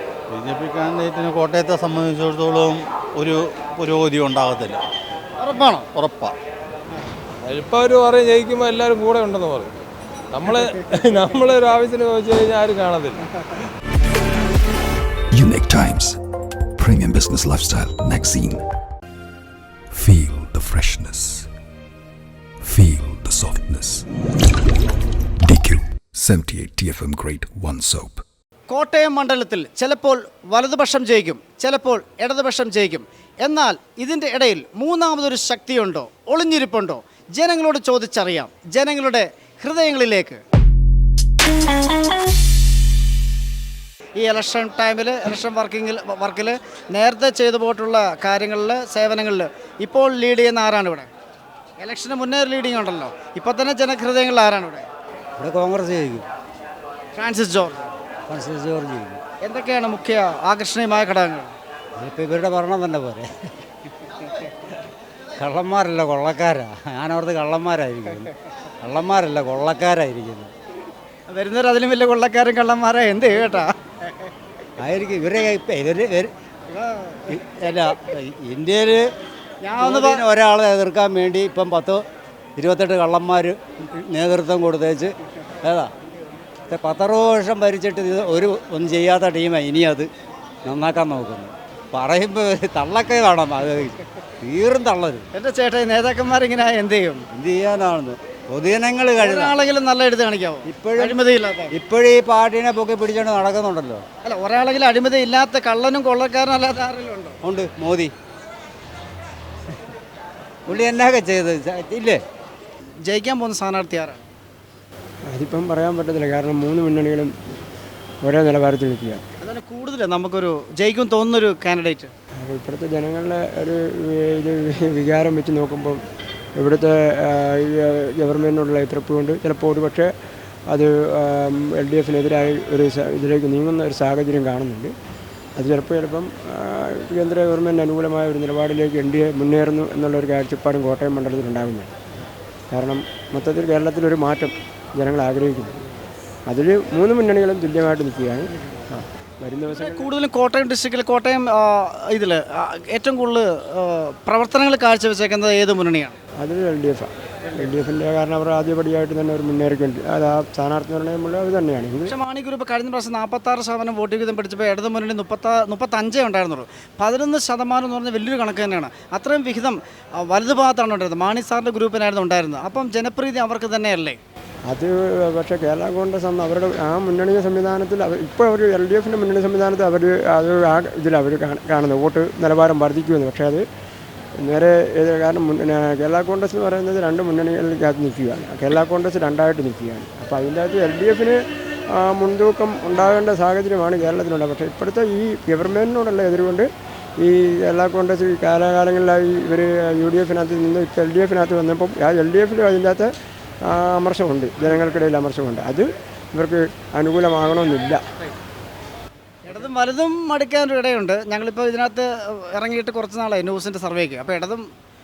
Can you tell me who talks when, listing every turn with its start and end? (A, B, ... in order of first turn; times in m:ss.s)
0:00.3-0:04.8 A
0:05.4-0:05.9 B
0:06.0-0:06.3 A
0:07.4-0:09.7 C
0:10.3-0:13.2 C
0:15.3-0:16.2 D
0:16.8-0:18.6 D
0:19.9-0:21.5 D
0:22.6-0:24.0 D
0:25.4-0:28.2 D
0:28.7-0:40.4 B
0:44.2-0:51.1 B
0:51.8-0:54.9 B
0:55.4-0:56.3 E
0:57.1-0:57.8 B
0:58.3-0:59.2 E
0:59.4-1:01.6 B
1:02.0-1:03.3 E
1:05.4-1:08.3 E
1:08.8-1:10.5 E
1:11.3-1:13.7 B
1:14.8-1:16.3 E
1:16.7-1:17.3 B
1:17.3-1:19.1 E
1:19.6-1:20.3 B
1:19.8-1:22.0 E
1:22.6-1:25.9 E
1:26.7-1:30.1 E
1:30.6-1:35.3 E
1:35.3-1:37.3 B
1:37.3-1:39.5 E
1:39.1-1:41.8 B
1:40.6-1:41.2 E
1:41.7-1:44.1 E
1:44.2-1:47.4 B
1:47.4-1:48.1 E
1:50.7-1:52.2 E
1:53.1-1:54.3 B
1:55.3-1:57.3 F
1:58.2-1:59.2 F
1:59.4-2:02.1 B
2:02.4-2:06.0 F
2:06.6-2:10.1 F
2:10.7-2:14.9 F
2:15.6-2:21.9 F
2:22.7-2:25.8 F
2:26.5-2:30.1 F
2:29.7-2:36.2 B
2:36.4-2:42.2 F
2:42.1-2:54.2 B
2:54.7-3:03.6 F
3:04.4-3:16.7 F
3:17.2-3:23.1 F
3:23.6-3:28.0 F
3:29.5-3:34.6 B